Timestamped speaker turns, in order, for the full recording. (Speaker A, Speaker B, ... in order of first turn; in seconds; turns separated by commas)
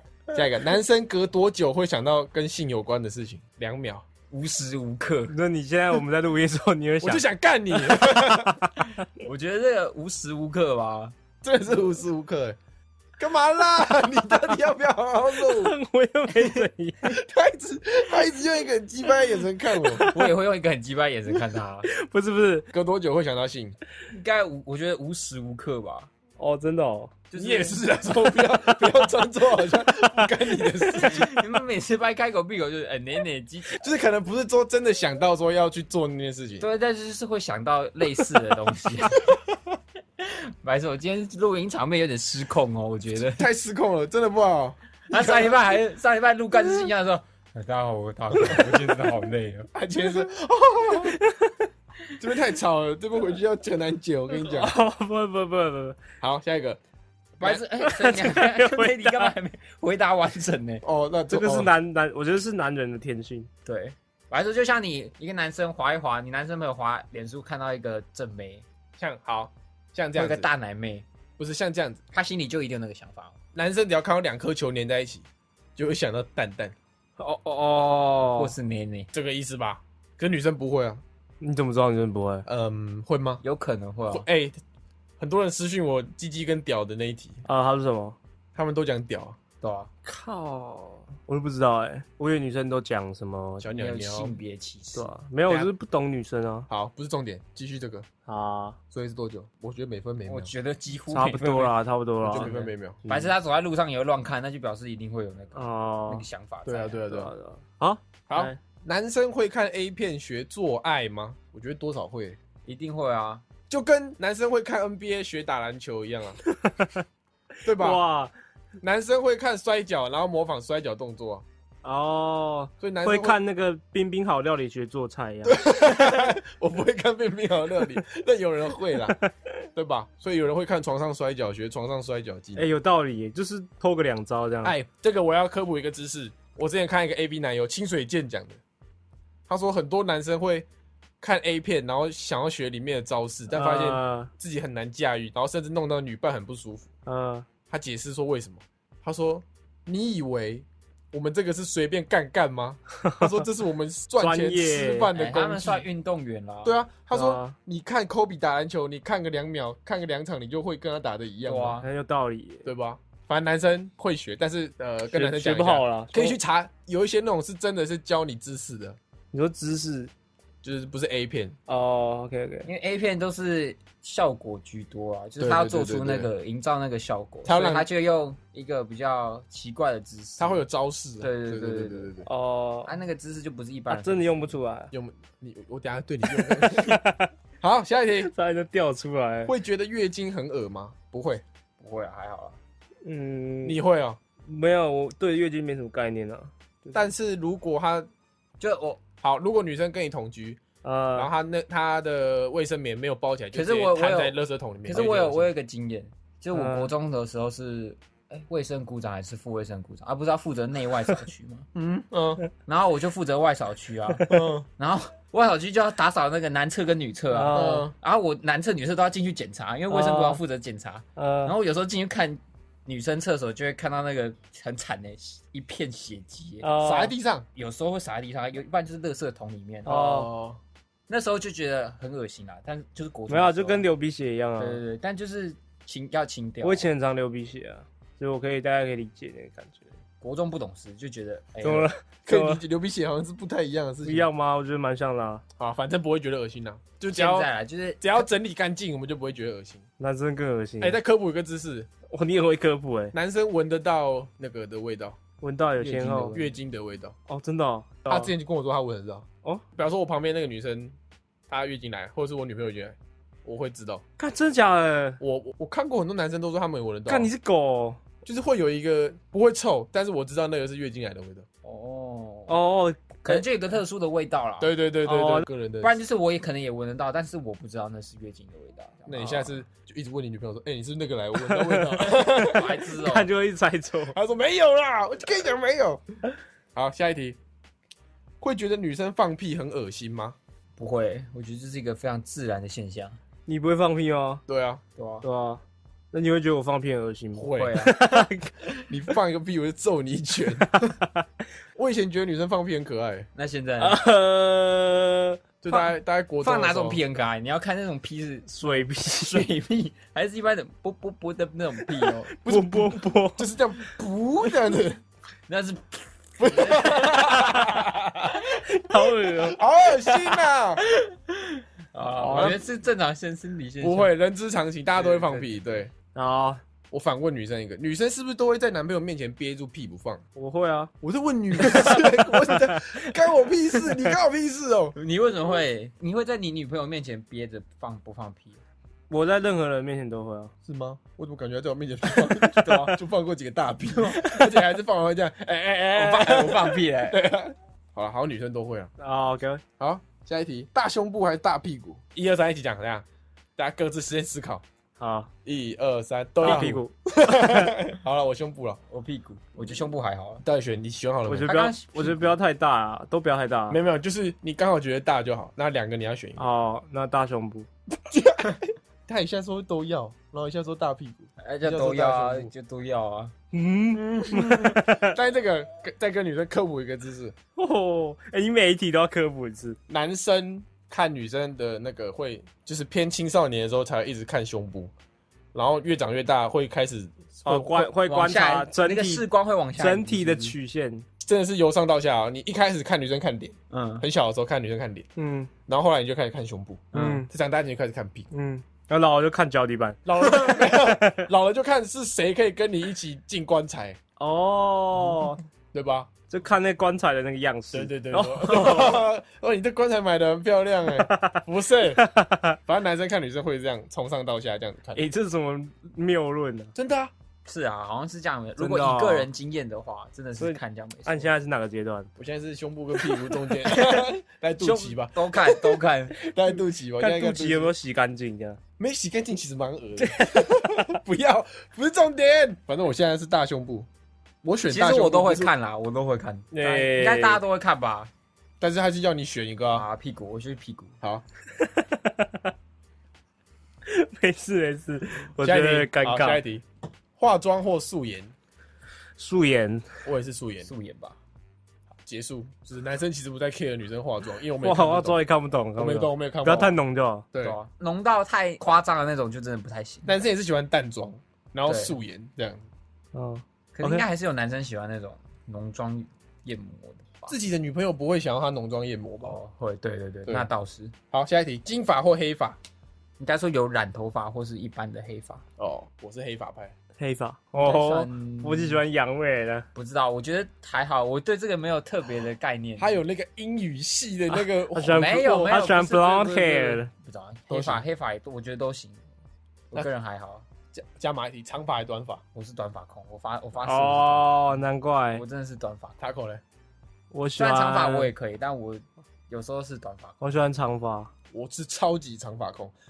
Speaker A: 0.3-4.1, Speaker B: 4.3-5.3, Speaker C: 5.3-7.2, Speaker A: 7.0-8.6, Speaker C: 7.8-8.7, Speaker B: 8.9-11.2, Speaker A: 11.4-12.6, Speaker A: 13.2-15.7, Speaker C: 15.4-17.2, Speaker A: 17.1-20.1, Speaker C: 19.8-20.3, Speaker B: 20.0-21.9, Speaker C: 21.9-22.7, Speaker A: 22.7-23.8, Speaker B: 24.1-26.1, Speaker C: 26.4-27.1, Speaker B: 27.3-27.8, Speaker A: 27.4-31.3, Speaker C: 30.0-30.5, Speaker B: 30.9-33.8, Speaker A: 33.8-36.7, Speaker B: 36.6-39.3, Speaker A: 39.1-39.6, Speaker B: 40.2-43.5, Speaker A: 43.3-45.5, Speaker B: 45.1-49.7, Speaker A: 49.7-51.2, Speaker C: 51.2-51.6, Speaker A: 52.2-54.7, Speaker C: 54.4-56.0, Speaker A: 56.2-56.8, Speaker B: 57.4-60.8, Speaker C: 57.4-59.3, Speaker A: 60.8-61.7, Speaker C: 61.3-63.5, Speaker B: 63.7-68.7, Speaker A: 69.0-70.5, Speaker B: 70.2-71.1, Speaker A: 71.4-72.0, Speaker B: 72.1-73.3, Speaker A: 73.5-76.8, Speaker C: 77.2-78.5, Speaker B: 78.3-79.1, Speaker A: 79.1-81.0, Speaker C: 81.4-82.5, Speaker A: 82.5-83.4, Speaker B: 83.4-84.3, Speaker A: 84.1-84.6, Speaker A: 85.2-87.4, Speaker C: 87.5-88.2, Speaker A: 88.5-89.4, Speaker B: 89.6-89.9, Speaker C: 90.0-93.7, Speaker A: 93.6-94.3, Speaker B: 93.7-95.7, Speaker C: 95.0-96.7, Speaker A: 96.7-98.1, Speaker C: 98.3-98.8, Speaker A: 98.9-100.5, Speaker B: 100.2-107.0, Speaker C: 101.1-102.5, Speaker A: 102.2-103.0, Speaker C: 103.1-103.3, Speaker C: 105.5-106.2, Speaker A: 106.7-107.3, Speaker C: 107.1-108.6, Speaker A: 108.3-112.4, Speaker B: 112.7-113.5, Speaker A: 113.7-116.4, Speaker C: 116.5-117.0, Speaker A: 117.7-118.0, Speaker C: 117.7-118.3, Speaker A: 118.8-121.4, Speaker C: 121.8-125.6, Speaker A: 122.8-123.4, Speaker A: 125.5-129.2, Speaker A: 129.8-132.7, Speaker C: 132.6-134.8, Speaker A: 134.6-138.6, Speaker A: 139.5-140.7, Speaker A: 141.2-146.9, Speaker C: 143.5-144.3, Speaker C: 147.1-147.5, Speaker A: 147.7-155.9, Speaker C: 153.1-153.4, Speaker C: 154.2-155.1, Speaker B: 155.1-156.8, Speaker A: 156.7-161.8, Speaker C: 157.1-157.6, Speaker B: 161.4-161.9, Speaker C: 161.8-162.7, Speaker A: 162.7-169.0, Speaker C: 165.1-166.4, Speaker C: 169.3-170.1, Speaker A: 170.6-171.6, Speaker C: 171.7-172.7, Speaker B: 172.7-180.6, Speaker A: 175.4-176.3, Speaker A: 177.4-177.9, Speaker A: 180.4-182.3, Speaker B: 181.2-182.1, Speaker C: 182.3-183.0, Speaker B: 182.8-184.6, Speaker C: 183.9-184.9, Speaker A: 184.9-187.0, Speaker C: 186.3-187.3, Speaker A: 187.6-188.3, Speaker C: 188.2-189.5, Speaker A: 189.5-191.4, Speaker B: 191.8-192.6, Speaker C: 193.0-193.8, Speaker A: 193.6-194.2, Speaker C: 194.5-197.0, Speaker A: 196.9-198.1, Speaker B: 198.6-199.0, Speaker A: 199.2-200.6, Speaker C: 200.8-201.3, Speaker A: 201.2-205.5, Speaker B: 203.5-211.7, Speaker C: 206.5-206.9, Speaker A: 211.8-212.4, Speaker B: 212.7-226.7, Speaker A: 214.3-214.7, Speaker C: 217.3-217.9, Speaker A: 217.5-217.9, Speaker C: 219.9-220.4, Speaker C: 221.2-221.5, Speaker C: 226.6-227.1, Speaker A: 226.8-227.5, Speaker B: 227.6-230.0, Speaker C: 229.9-230.3, Speaker A: 229.9-230.6, Speaker B: 231.1-233.8, Speaker C: 233.3-234.8, Speaker B: 234.6-236.9, Speaker C: 236.6-239.9, Speaker B: 240.2-241.9, Speaker C: 241.6-242.6, Speaker A: 242.3-244.3, Speaker C: 244.0-245.4, Speaker A: 245.6-247.5, Speaker B: 247.1-248.2, Speaker A: 248.0-249.8, Speaker C: 250.0-251.0, Speaker A: 250.8-251.9, Speaker C: 252.1-253.2, Speaker A: 253.1-255.2, Speaker C: 255.4-256.4, Speaker B: 255.8-256.6, Speaker A: 256.3-257.1, Speaker C: 257.3-258.3, Speaker A: 258.1-261.0, Speaker A: 261.5-264.0, Speaker C: 264.2-265.2, Speaker A: 265.2-267.3, Speaker C: 267.1-268.0, Speaker A: 268.2-271.5, Speaker B: 271.6-272.6, Speaker C: 272.5-273.4, Speaker B: 273.2-274.7, Speaker A: 274.6-276.0, Speaker C: 275.1-275.5, Speaker B: 275.8-279.6, Speaker A: 279.1-282.7, Speaker C: 281.4-284.2, Speaker B: 282.3-283.3, Speaker A: 284.1-286.0, Speaker A: 286.8-287.4, Speaker A: 288.4-290.4, Speaker B: 290.8-293.2, Speaker C: 293.5-294.4, Speaker A: 294.5-294.8, Speaker B: 295.0-295.2, Speaker C: 295.2-295.6, Speaker C: 296.1-298.5, Speaker A: 297.4-297.8, Speaker B: 297.5-298.0, Speaker A: 298.9-300.9, Speaker C: 300.6-301.2, Speaker A: 301.8-303.3, Speaker B: 303.4-304.0, Speaker C: 303.8-305.4, Speaker A: 305.6-307.0, Speaker B: 306.4-312.3, Speaker C: 308.5-309.5, Speaker C: 311.9-313.5, Speaker A: 312.4-315.0, Speaker B: 315.5-318.6, Speaker A: 316.4-317.9, Speaker C: 318.6-319.6, Speaker A: 319.3-320.8, Speaker B: 320.9-324.1, Speaker C: 322.2-322.6, Speaker A: 322.3-322.6, Speaker A: 323.8-325.9, Speaker B: 325.0-325.5, Speaker C: 326.1-326.6, Speaker A: 326.9-330.2, Speaker C: 330.4-330.9, Speaker A: 331.0-334.9, Speaker C: 331.6-333.1, Speaker C: 333.9-334.1, Speaker B: 334.9-338.6, Speaker C: 339.1-340.5, Speaker A: 340.6-348.9, Speaker C: 342.1-342.8, Speaker B: 342.6-342.9, Speaker B: 344.0-344.4, Speaker B: 345.9-347.2, Speaker C: 349.0-349.6, Speaker A: 349.8-353.1, Speaker A: 353.6-354.6, Speaker C: 355.0-355.3, Speaker A: 355.4-358.8, Speaker C: 356.4-357.8, Speaker B: 358.9-360.4, Speaker A: 360.4-361.6, Speaker C: 361.3-363.8, Speaker B: 361.4-362.3, Speaker A: 363.7-366.5, Speaker C: 366.4-367.7, Speaker A: 368.1-372.5, Speaker B: 371.4-373.3, Speaker C: 373.5-375.2, Speaker A: 373.9-377.4, Speaker C: 377.6-379.8, Speaker A: 379.9-384.9, Speaker A: 385.5-387.9, Speaker C: 387.5-389.2, Speaker B: 388.0-390.6, Speaker C: 389.8-391.1, Speaker A: 391.2-395.1, Speaker B: 393.7-394.1, Speaker C: 395.2-395.5, Speaker A: 395.7-398.3, Speaker B: 396.9-397.2, Speaker C: 396.9-397.3, Speaker C: 398.3-401.3, Speaker A: 400.1-404.0, Speaker C: 404.2-405.4, Speaker A: 405.7-406.1, Speaker C: 406.3-409.1, Speaker A: 407.7-412.0, Speaker C: 410.9-411.4, Speaker C: 411.9-412.6, Speaker A: 412.7-415.0, Speaker C: 414.9-416.7, Speaker A: 416.8-417.1, Speaker B: 417.5-421.3, Speaker C: 418.6-419.3, Speaker C: 420.4-422.1, Speaker A: 422.2-427.7, Speaker B: 423.7-424.1, Speaker B: 424.6-426.2, Speaker C: 427.0-428.6, Speaker A: 428.8-433.9, Speaker C: 430.0-431.0, Speaker A: 434.4-435.5, Speaker B: 434.7-438.1, Speaker C: 436.5-437.4, Speaker A: 438.6-439.9, Speaker B: 439.7-441.0, Speaker C: 441.6-442.5, Speaker C: 443.9-446.4, Speaker A: 445.4-446.6, Speaker A: 447.2-448.3, Speaker C: 449.2-449.9, Speaker A: 450.1-450.7, Speaker B: 450.6-451.2, Speaker A: 452.0-455.2, Speaker C: 454.6-457.2, Speaker A: 455.8-456.8, Speaker B: 457.4-460.1, Speaker A: 460.1-462.6, Speaker B: 461.7-462.0, Speaker C: 463.1-464.1, Speaker B: 463.7-467.4, Speaker A: 467.3-469.4, Speaker B: 469.2-470.9, Speaker A: 471.1-472.6, Speaker B: 473.2-475.4, Speaker A: 475.6-476.8, Speaker C: 477.0-479.7, Speaker B: 477.6-478.8, Speaker B: 479.7-483.0, Speaker A: 482.8-485.5, Speaker C: 484.7-486.9, Speaker B: 484.9-489.1, Speaker A: 487.5-487.8, Speaker B: 489.7-490.4, Speaker A: 490.7-492.2, Speaker B: 492.4-496.0, Speaker C: 493.6-495.2, Speaker A: 496.0-496.4, Speaker C: 497.1-498.1, Speaker B: 497.4-500.2, Speaker C: 500.2-501.1, Speaker A: 501.3-502.7